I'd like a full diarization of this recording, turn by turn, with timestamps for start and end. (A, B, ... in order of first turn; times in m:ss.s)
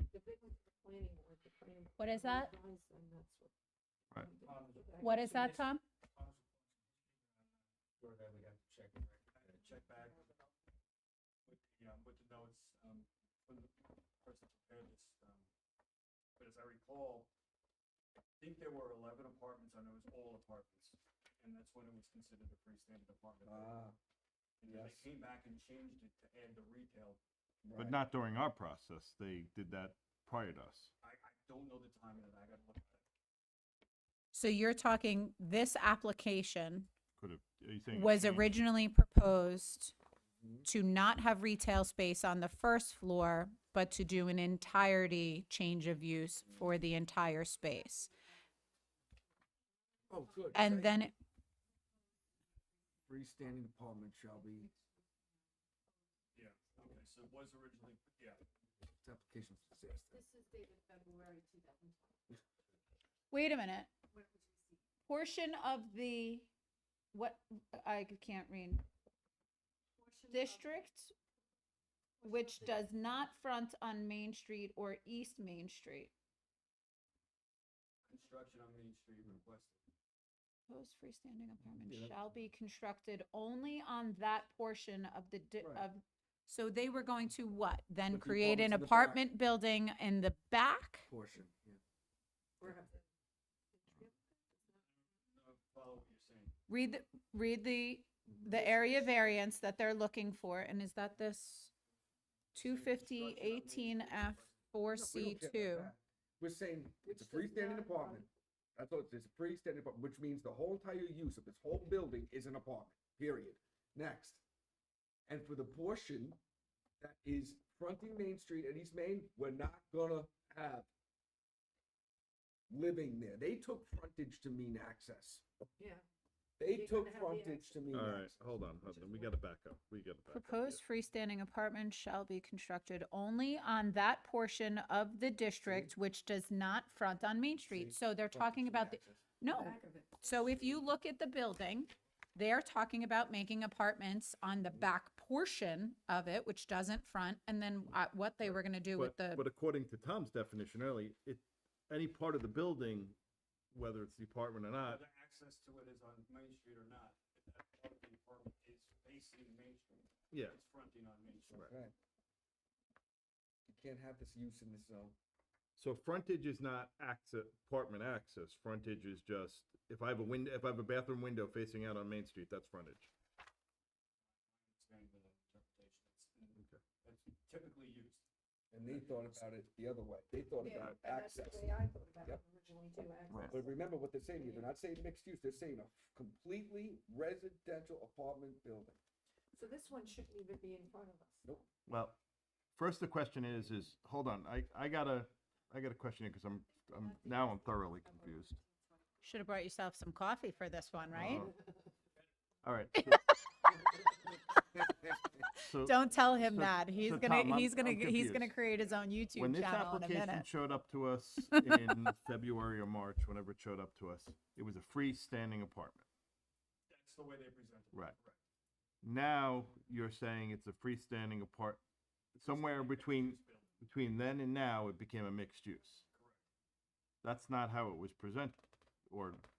0:00.1-0:03.5 A
0:02.0-0:02.5 B
0:04.2-0:05.6 A
0:04.4-0:07.4 C
0:05.0-0:05.8 B
0:08.0-0:10.3 C
0:11.4-0:15.5 C
0:16.4-0:17.3 C
0:18.4-0:23.8 C
0:23.4-0:24.0 D
0:24.6-0:27.2 C
0:24.7-0:25.1 D
0:27.6-0:28.0 D
0:27.8-0:30.9 E
0:31.0-0:33.0 C
0:34.3-0:36.9 B
0:37.2-0:38.6 E
0:37.9-0:40.0 B
0:40.4-0:40.7 D
0:40.6-0:48.1 B
0:50.1-0:51.0 D
0:50.5-0:51.1 B
0:53.1-0:54.7 D
0:56.4-0:58.4 C
0:59.0-1:00.2 D
1:00.1-1:02.3 A
1:03.3-1:04.0 B
1:04.1-1:04.8 A
1:05.1-1:06.5 B
1:07.1-1:08.8 B
1:10.0-1:10.9 A
1:10.3-1:11.1 B
1:12.2-1:13.2 A
1:12.2-1:16.1 B
1:18.1-1:19.8 C
1:20.7-1:31.1 B
1:21.6-1:22.2 D
1:25.6-1:25.9 D
1:28.1-1:29.2 D
1:31.1-1:31.8 D
1:32.6-1:33.0 A
1:33.8-1:34.8 A
1:34.9-1:36.6 C
1:36.7-1:41.7 B
1:38.4-1:39.4 A
1:42.5-1:44.6 C
1:42.6-1:45.9 B
1:44.9-1:54.4 D
1:47.0-1:48.3 A
1:55.3-1:56.4 D
1:57.0-2:00.9 D
2:02.7-2:05.4 D
2:05.8-2:06.0 A
2:06.6-2:08.3 D
2:06.7-2:09.2 A
2:07.9-2:10.8 E
2:10.3-2:29.4 B
2:15.6-2:16.0 D
2:17.7-2:19.2 D
2:19.5-2:20.6 A
2:24.6-2:24.9 D
2:28.4-2:33.2 E
2:33.7-2:35.0 E
2:34.8-2:41.7 C
2:40.3-2:40.6 E
2:41.5-2:41.9 D
2:43.7-2:45.2 D
2:45.8-2:53.1 E
2:54.5-2:58.2 C
2:58.7-3:02.4 D
2:58.8-2:59.4 C
3:00.6-3:03.8 A
3:03.3-3:03.6 E
3:03.5-3:09.0 D
3:04.3-3:04.7 A
3:09.5-3:11.4 A
3:11.9-3:12.2 E
3:12.8-3:18.6 E
3:16.9-3:18.8 A
3:19.2-3:21.5 B
3:21.1-3:21.6 E
3:22.6-3:23.3 E
3:22.9-3:23.6 B
3:24.8-3:25.2 D
3:25.6-3:30.5 B
3:25.6-3:28.6 E
3:29.4-3:36.1 E
3:31.5-3:32.1 B
3:36.9-3:38.4 C
3:39.0-3:41.8 E
3:42.4-3:43.7 C
3:42.4-3:46.0 E
3:46.1-3:46.4 C
3:47.2-3:49.4 E